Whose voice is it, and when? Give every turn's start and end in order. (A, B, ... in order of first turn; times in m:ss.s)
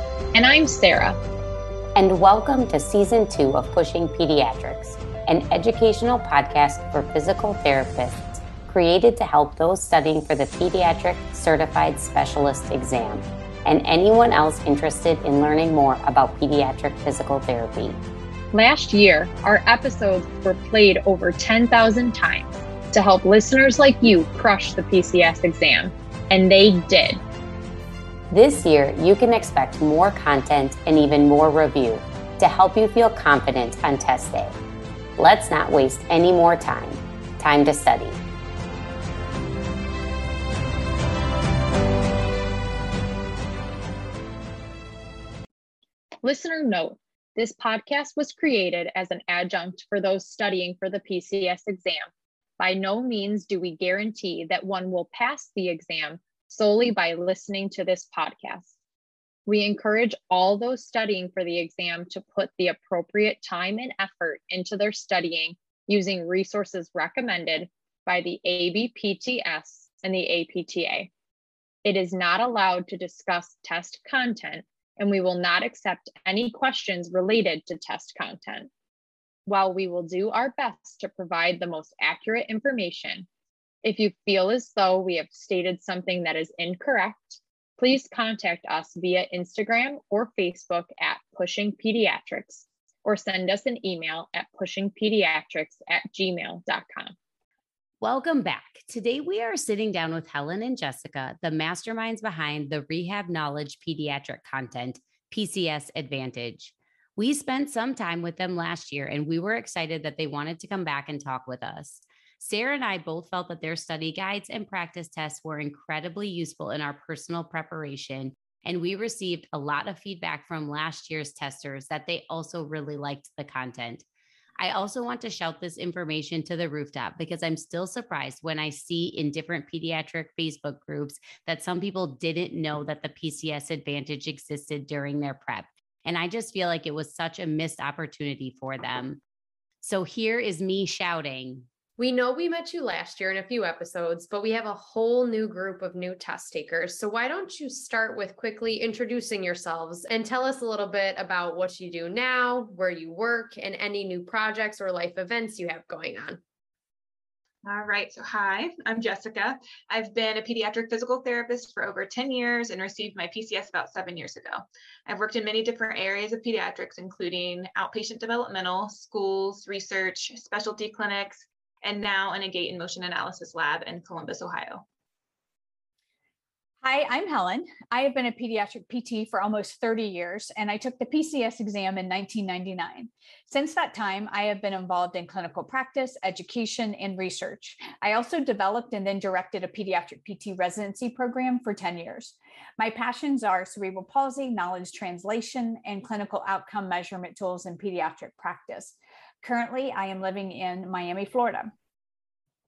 0:00.3-0:01.2 A
0:01.9-0:18.0 B
0:18.5-0:27.2 A
0:28.3-0:34.6 B
0:35.2-0:38.2 B
0:46.2-0:58.7 A
0:59.4-1:11.1 A
1:11.8-1:18.7 A
1:19.4-1:23.3 A
1:23.8-1:37.1 A
1:38.0-2:04.0 B
2:04.6-2:19.2 B
2:19.8-2:21.7 B
2:22.0-2:36.4 C
2:37.6-2:54.8 D
2:56.8-3:21.7 E